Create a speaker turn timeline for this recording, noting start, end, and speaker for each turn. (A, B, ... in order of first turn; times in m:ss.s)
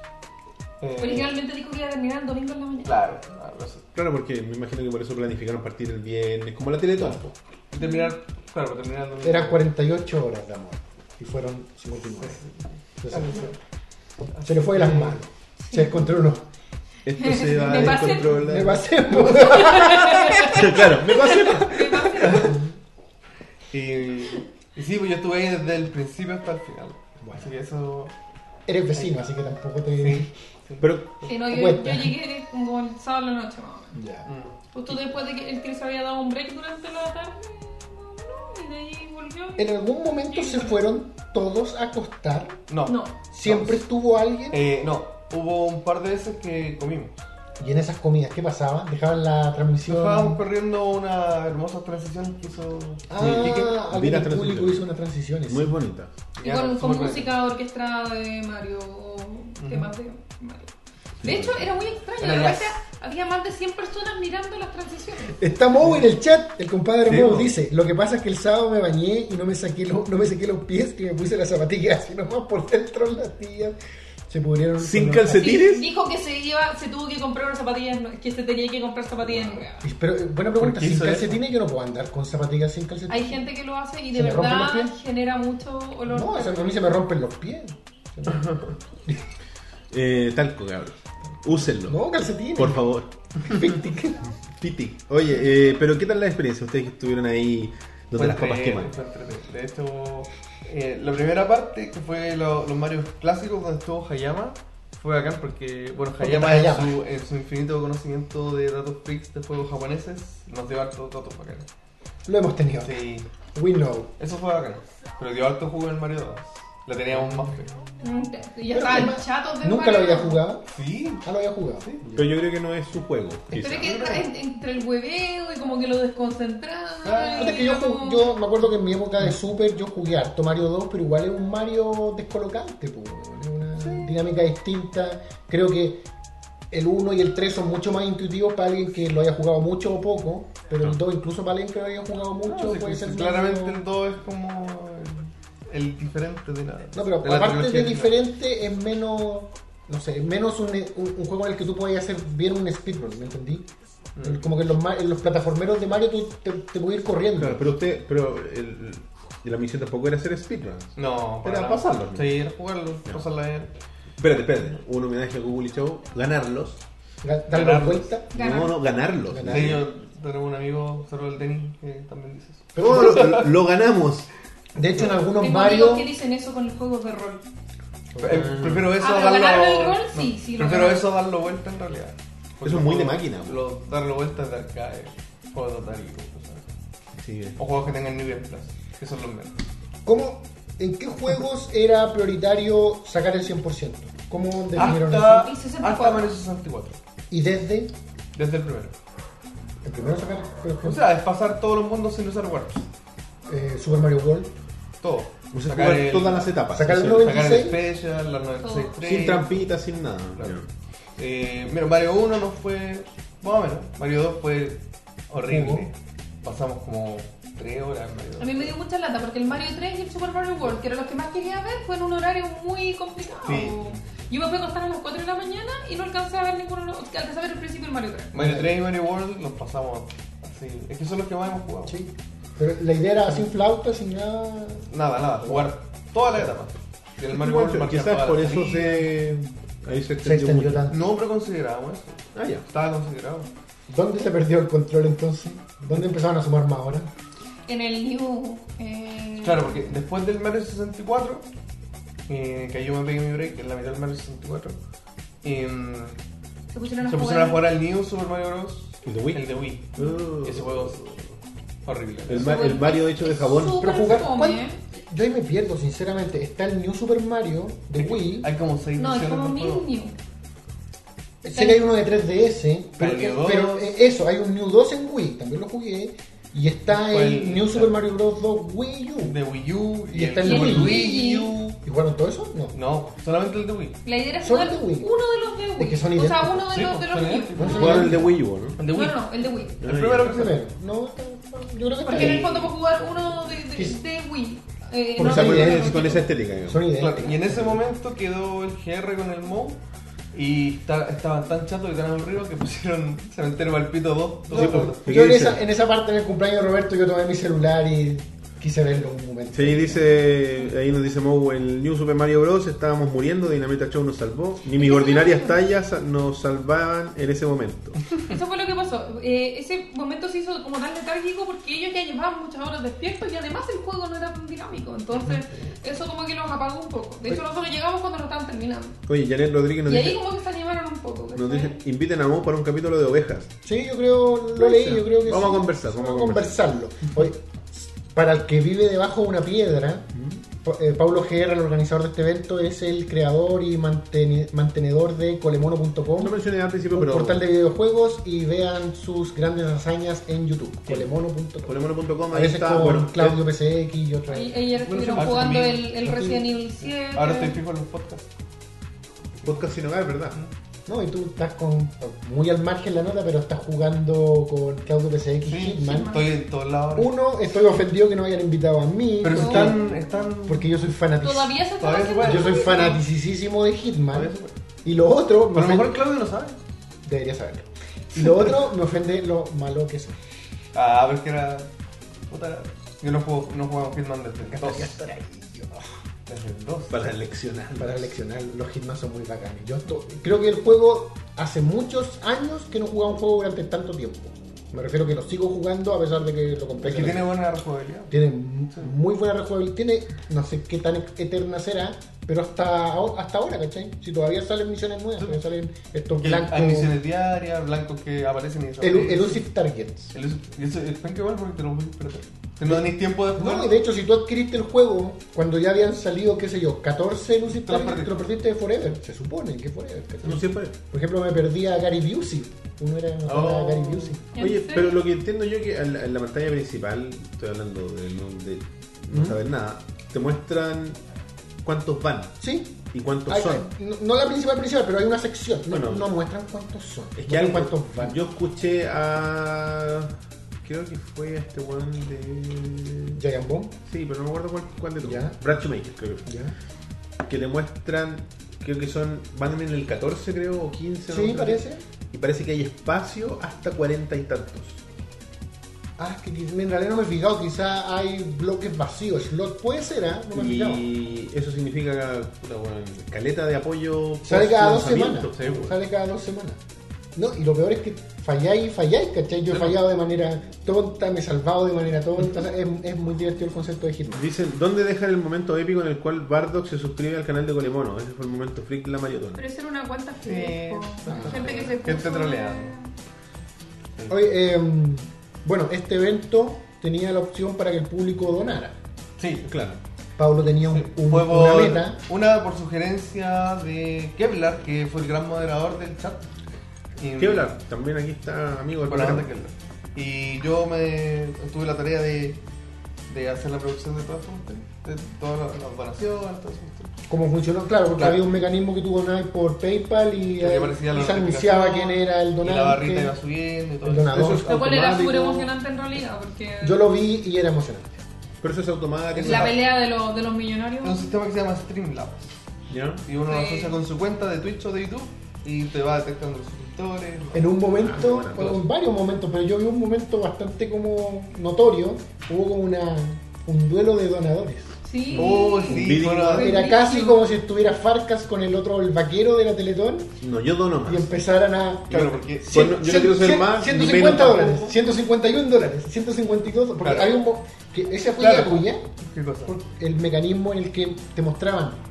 0:00.8-0:01.4 A
0:01.0-0:03.0 B
0:02.8-0:03.8 A
0:03.9-0:07.3 C
0:07.7-0:09.7 A
0:07.8-0:08.2 B
0:09.2-0:12.4 D
0:12.0-0:13.6 A
0:13.0-0:13.5 D
0:14.3-0:15.2 A
0:14.4-0:16.4 D
0:15.6-0:16.2 B
0:17.0-0:18.9 C
0:17.1-0:18.4 B
0:17.8-0:20.6 D
0:19.1-0:19.6 A
0:19.2-0:22.6 B
0:20.4-0:22.1 C
0:22.2-0:22.7 D
0:23.7-0:28.1 A
0:27.2-0:27.5 D
0:28.7-0:30.3 D
0:30.0-0:31.4 A
0:30.8-0:31.1 C
0:31.3-0:34.0 B
0:31.4-0:32.2 D
0:33.9-0:34.3 D
0:34.2-0:34.6 A
0:34.7-0:39.7 B
0:39.6-0:42.6 D
0:40.3-0:40.8 B
0:42.7-0:43.8 A
0:42.8-0:43.2 B
0:43.3-0:44.6 D
0:44.5-0:47.2 A
0:47.6-0:50.4 D
0:49.8-0:53.8 A
0:53.1-0:55.8 D
0:53.2-0:54.8 C
0:55.5-0:56.1 C
0:56.4-0:57.3 A
0:56.4-1:05.4 B
0:59.6-0:59.9 A
1:01.2-1:01.8 C
1:02.2-1:02.8 A
1:05.4-1:13.8 D
1:05.8-1:06.1 A
1:07.0-1:07.5 A
1:14.3-1:15.6 D
1:14.8-1:15.8 C
1:15.4-1:19.8 B
1:19.8-1:23.4 D
1:20.5-1:21.4 A
1:23.1-1:26.7 B
1:24.1-1:24.9 D
1:26.1-1:29.2 D
1:28.3-1:28.7 A
1:29.9-1:32.0 C
1:31.8-1:32.8 D
1:32.5-1:33.1 C
1:33.4-1:34.3 D
1:34.4-1:38.9 C
1:38.1-1:51.7 A
1:46.2-1:47.0 D
1:52.2-1:53.0 D
1:52.8-1:53.3 A
1:53.5-1:54.1 D
1:54.2-1:57.8 A
1:57.1-1:57.4 D
1:58.0-2:00.4 B
1:58.7-2:00.6 D
2:00.7-2:01.2 A
2:01.2-2:02.3 D
2:02.1-2:03.8 C
2:03.5-2:08.4 B
2:03.6-2:04.2 A
2:07.0-2:07.6 A
2:07.4-2:16.0 D
2:13.8-2:14.1 A
2:16.7-2:23.8 D
2:22.4-2:28.2 A
2:26.9-2:33.7 D
2:34.2-2:34.5 A
2:34.2-2:37.7 D
2:37.3-2:42.3 C
2:41.0-2:43.7 A
2:44.2-2:46.8 C
2:47.2-2:48.3 D
2:47.5-2:48.1 A
2:48.3-2:48.8 B
2:48.3-2:49.8 C
2:49.3-2:49.8 D
2:49.4-2:53.5 A
2:52.7-2:53.4 D
2:52.8-2:54.3 C
2:54.7-2:56.1 D
2:54.9-2:55.2 A
2:55.4-2:57.4 B
2:58.1-2:58.7 D
2:58.2-3:06.7 A
2:58.3-2:58.9 C
2:59.0-3:01.0 B
3:02.6-3:03.6 C
3:07.2-3:07.6 C
3:07.6-3:09.6 A
3:10.0-3:15.5 D
3:14.7-3:17.0 A
3:14.8-3:16.3 B
3:17.3-3:17.9 D
3:18.4-3:18.9 A
3:19.8-3:21.0 D
3:20.8-3:22.9 A
3:23.5-3:24.5 D
3:25.0-3:29.5 A
3:25.5-3:27.4 C
3:26.7-3:27.8 D
3:28.6-3:29.0 B
3:29.0-3:30.7 C
3:31.2-3:38.7 A
3:35.4-3:35.9 D
3:38.4-3:48.3 B
3:43.4-3:44.0 A
3:48.3-3:52.0 A
3:48.3-3:48.7 D
3:51.9-3:55.7 D
3:53.2-3:53.5 A
3:54.9-3:59.0 A
3:57.3-4:00.8 C
4:00.2-4:01.0 D
4:00.9-4:03.5 A
4:02.3-4:02.6 C
4:03.9-4:07.1 D
4:07.7-4:09.8 B
4:09.4-4:11.4 A
4:12.3-4:14.8 A
4:15.4-4:16.2 A
4:16.7-4:17.6 B
4:17.0-4:21.2 A
4:19.0-4:21.0 C
4:21.8-4:22.6 A
4:22.3-4:24.2 C
4:22.4-4:24.8 B
4:23.8-4:28.5 D
4:27.9-4:29.8 A
4:29.0-4:30.2 B
4:31.4-4:39.4 D
4:31.5-4:31.8 B
4:33.0-4:33.9 A
4:36.9-4:38.0 A
4:39.2-4:41.8 A
4:40.1-4:41.2 D
4:40.4-4:41.5 B
4:41.8-4:42.8 D
4:42.7-4:44.0 A
4:44.0-4:48.1 B
4:44.4-4:45.1 D
4:45.8-4:46.7 D
4:46.7-4:48.2 A
4:47.6-4:48.3 D
4:47.6-4:48.8 C
4:48.8-4:50.6 A
4:48.9-4:49.8 B
4:49.8-4:50.5 C
4:50.2-4:52.5 D
4:52.0-4:56.3 B
4:52.1-4:52.7 A
4:53.7-4:54.0 D
4:55.2-4:57.7 D
4:55.2-4:56.9 C
4:56.9-4:59.8 A
5:00.3-5:05.1 A
5:04.5-5:10.3 D
5:04.5-5:05.6 C
5:09.5-5:18.0 C
5:14.7-5:15.6 B
5:18.3-5:29.0 B
5:29.0-5:30.2 C
5:29.8-5:31.8 B
5:31.3-5:33.5 C
5:33.6-5:40.1 D
5:34.5-5:36.5 C
5:40.1-5:40.4 C
5:40.6-5:46.3 D
5:46.2-5:47.4 C
5:46.9-5:51.8 D
5:50.9-5:51.1 C
5:51.6-5:53.4 C
5:52.3-5:56.5 D
5:54.3-5:57.6 B
5:55.1-5:55.9 A
5:57.1-5:58.2 A
5:59.4-6:00.4 C
6:00.9-6:06.2 D
6:05.4-6:07.1 A
6:05.8-6:06.3 B
6:07.0-6:11.6 D
6:09.2-6:10.7 A
6:09.3-6:09.9 B
6:11.2-6:13.0 B
6:11.8-6:12.6 A
6:12.2-6:14.3 D
6:14.1-6:14.6 A
6:14.8-6:16.0 D
6:15.5-6:16.6 A
6:17.0-6:20.2 D
6:18.2-6:18.5 A
6:20.7-6:21.7 A
6:22.3-6:25.0 A
6:24.5-6:25.8 D
6:26.3-6:27.1 A
6:26.9-6:28.2 C
6:27.8-6:37.4 D
6:36.8-6:38.2 A
6:38.1-6:46.9 D
6:46.2-6:49.4 A
6:48.8-6:50.1 D
6:50.1-6:53.8 A
6:52.6-7:04.3 D
6:57.6-6:58.2 A
7:00.2-7:00.7 C
7:03.2-7:04.2 A
7:04.3-7:05.0 B
7:04.4-7:11.0 C
7:09.1-7:09.4 D
7:11.6-7:12.4 C
7:12.4-7:18.2 D
7:12.9-7:13.7 C
7:15.7-7:16.1 C
7:17.2-7:23.2 C
7:23.2-7:23.7 D
7:23.9-7:26.3 C
7:25.0-7:25.4 D
7:26.2-7:26.5 D
7:27.2-7:34.8 C
7:31.1-7:31.8 D
7:36.0-7:40.8 D
7:40.3-7:45.8 C
7:44.2-7:46.6 D
7:47.1-7:54.3 D
7:49.5-7:49.8 A
7:54.1-7:59.4 C
7:59.4-8:02.9 B
8:00.2-8:02.7 A
8:01.1-8:01.5 D
8:04.1-8:08.8 D
8:09.2-8:09.4 A
8:09.4-8:09.8 C
8:10.2-8:12.0 D
8:10.6-8:16.3 A
8:17.0-8:17.5 A
8:17.2-8:19.3 C
8:18.8-8:22.4 A
8:23.1-8:26.9 A
8:27.1-8:33.1 D
8:28.0-8:28.2 A
8:30.4-8:34.4 A
8:33.8-8:34.5 D
8:34.1-8:35.5 C
8:34.4-8:36.8 B
8:36.6-8:38.0 D
8:38.4-8:39.5 C
8:39.1-8:39.6 A
8:39.2-8:41.1 B
8:40.8-8:42.3 A
8:42.7-8:43.0 C
8:43.0-8:47.5 A
8:43.2-8:43.8 B
8:47.3-8:54.8 D
8:47.7-8:48.6 C
8:54.8-8:57.2 B
8:55.1-8:56.6 A
8:55.2-8:56.6 C
8:56.3-9:00.1 D
9:00.2-9:01.2 C
9:00.8-9:08.8 D
9:01.9-9:02.6 A
9:02.5-9:04.8 C
9:06.8-9:07.2 A
9:08.2-9:09.5 A
9:09.4-9:11.8 D